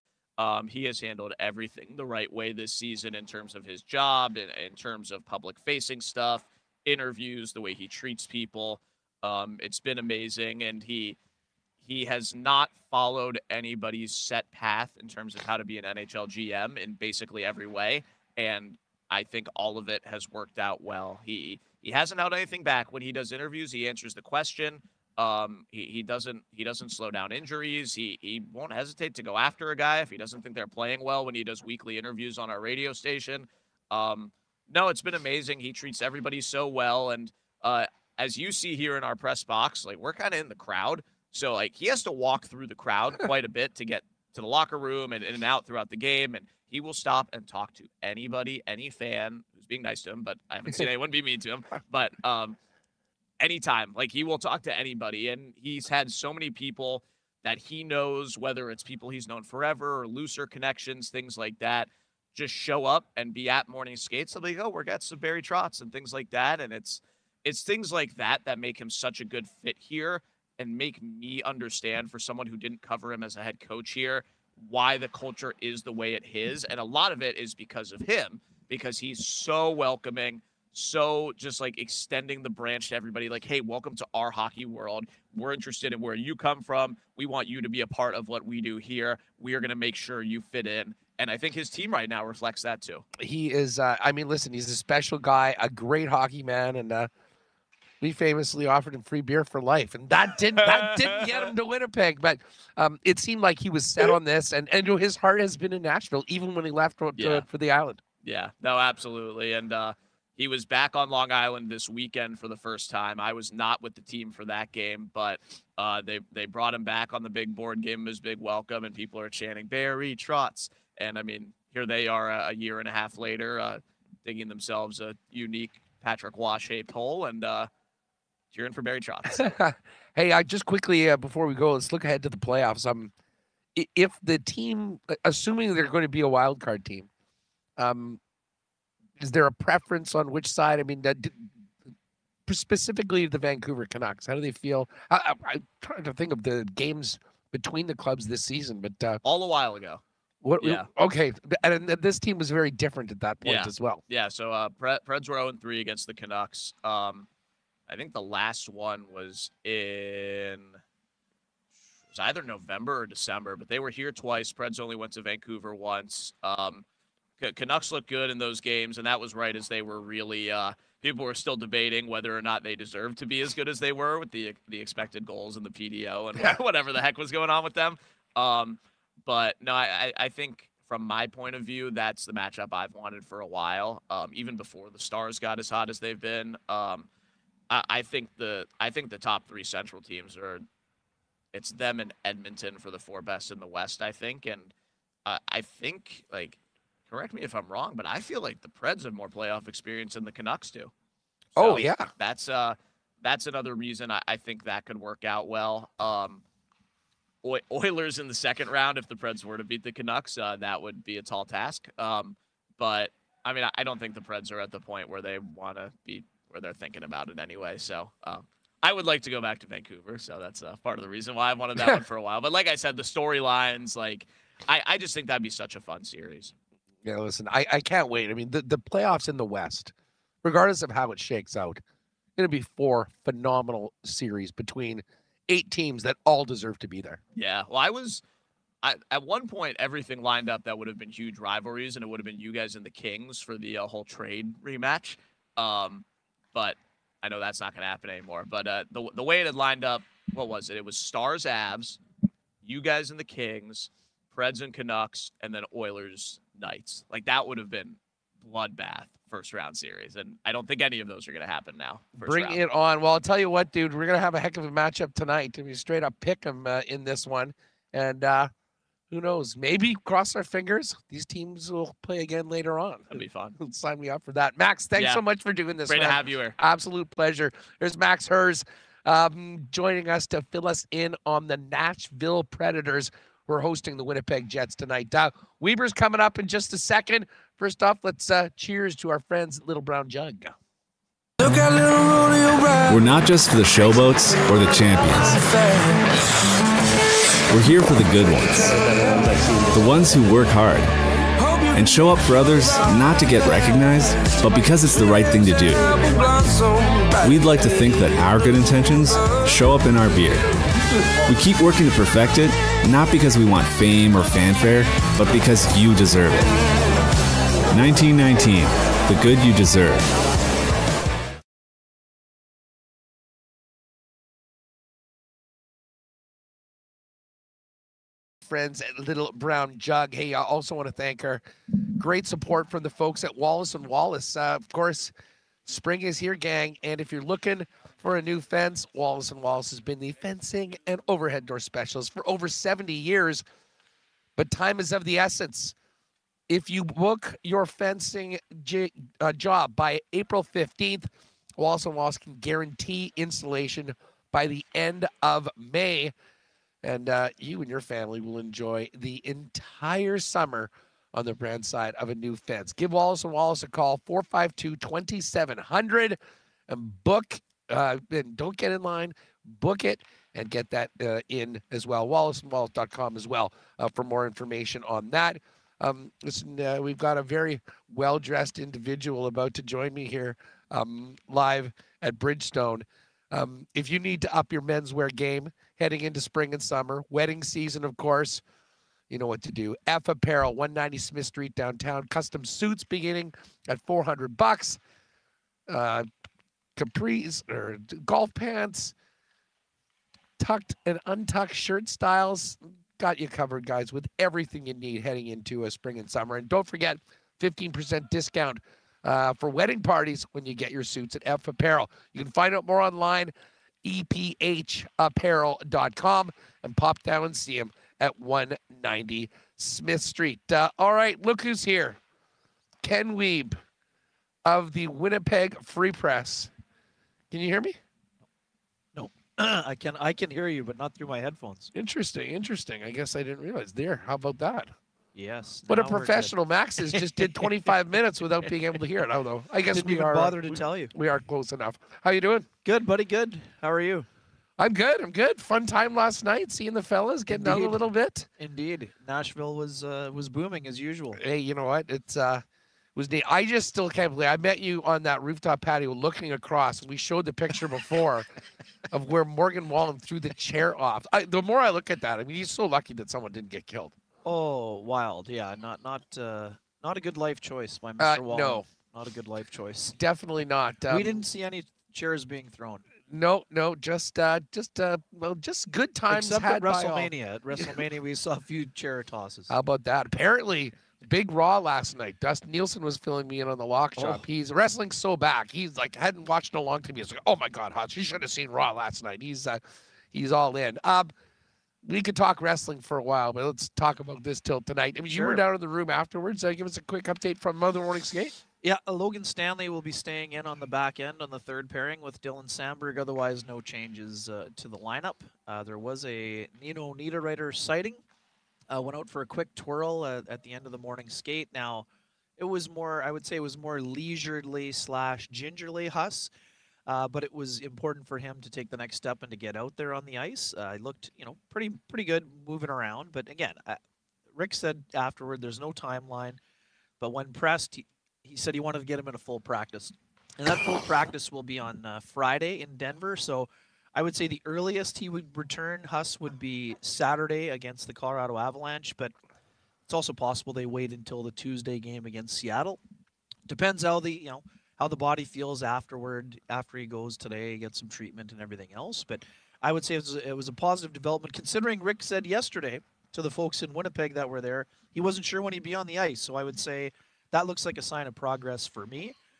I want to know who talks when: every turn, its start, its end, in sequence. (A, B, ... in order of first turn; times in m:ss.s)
0:00.4-0:11.2 A
0:11.8-0:52.6 A
0:53.4-1:33.0 A
1:33.2-1:37.1 B
1:38.0-1:48.0 B
1:40.7-1:41.2 A
1:47.2-1:47.5 A
1:48.2-2:07.7 A
2:08.5-2:09.4 A
2:09.3-2:13.1 B
2:13.7-2:17.1 B
2:17.8-2:18.2 B
2:19.2-2:21.5 B
2:22.5-2:29.2 B
2:29.2-2:30.0 A
2:30.4-2:34.0 B
2:30.6-2:30.9 A
2:33.4-2:37.3 A
2:37.9-2:40.8 A
2:42.1-2:46.8 A
2:47.4-3:07.1 A
3:07.7-3:10.6 A
3:11.5-3:14.7 A
3:15.2-3:16.6 A
3:17.1-3:20.9 A
3:21.5-3:26.4 A
3:21.6-3:22.1 B
3:27.4-3:46.5 A
3:47.0-3:49.9 B
3:50.4-3:51.8 B
3:52.4-3:57.2 B
3:57.3-3:58.2 A
3:58.8-4:12.0 A
4:12.6-4:22.6 A
4:22.2-4:28.5 B
4:29.1-4:50.5 B
4:33.1-4:33.6 A
4:35.0-4:35.2 A
4:35.9-4:36.6 A
4:51.4-4:51.8 C
4:52.8-4:55.5 C
4:57.5-4:58.8 C
4:59.7-5:00.9 C
5:01.7-5:06.4 C
5:07.2-5:10.5 C
5:11.3-5:16.6 C
5:17.7-5:20.1 C
5:28.4-5:31.4 B
5:32.0-5:35.1 B
5:35.6-5:43.4 B
5:44.4-5:45.7 B
5:46.5-5:56.1 B
5:56.8-6:06.2 B
6:06.7-6:28.4 B
6:29.1-6:34.8 B
6:35.7-6:36.0 B
6:36.8-6:38.9 B
6:40.4-6:53.3 B
6:53.8-7:02.0 B
7:02.8-7:03.6 B
7:04.4-7:06.5 B
7:07.3-7:07.8 B
7:08.9-7:11.7 D
7:11.7-7:14.7 B
7:15.1-7:16.4 D
7:15.7-7:22.5 B
7:16.9-7:17.7 D
7:19.7-7:20.9 D
7:22.6-7:24.0 D
7:24.6-7:28.3 B
7:27.3-7:27.8 D
7:28.4-7:31.2 D
7:31.2-7:32.4 B
7:33.0-7:38.3 B
7:38.9-7:43.9 B
7:44.2-7:50.0 D
7:48.0-7:48.6 B
7:50.0-7:51.2 B
7:50.9-7:52.8 D
7:53.1-7:57.7 B
7:56.1-7:59.5 D
7:59.5-8:09.6 B
8:04.0-8:04.2 D
8:10.1-8:11.1 B
8:11.8-8:18.4 B
8:15.1-8:15.4 D
8:18.6-8:28.0 D
8:28.7-8:31.8 D
8:32.4-8:36.3 D
8:36.8-8:43.8 D
8:44.3-8:46.4 D
8:47.0-8:59.1 D
8:59.9-9:02.8 D
9:03.5-9:19.2 D